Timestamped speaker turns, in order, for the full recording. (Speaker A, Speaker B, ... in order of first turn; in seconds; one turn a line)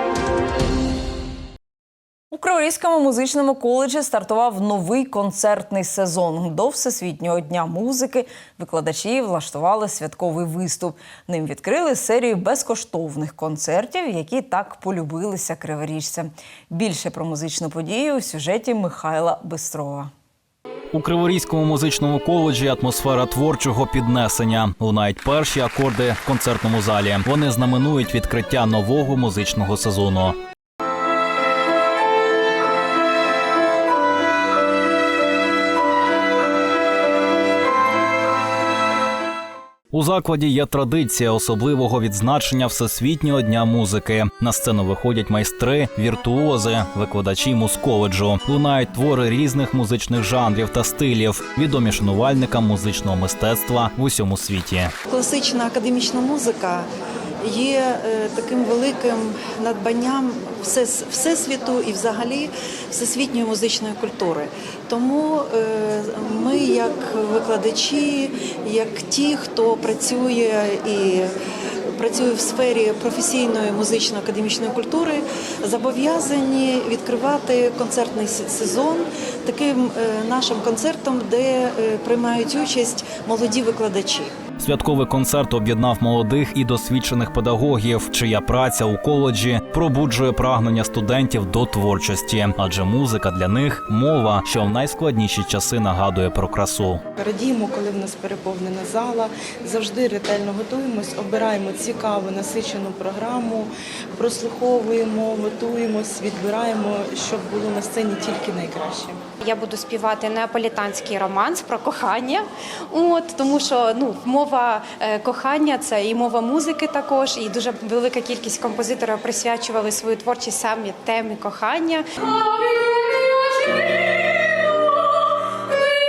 Speaker A: 2.3-20.1
Speaker B: 20.9-30.4
Speaker B: 39.9-54.9
Speaker C: 55.1-56.9
Speaker C: 57.4-71.3
Speaker C: 71.9-84.3
Speaker B: 84.6-97.0
Speaker D: 97.2-109.2
Speaker E: 109.4-122.0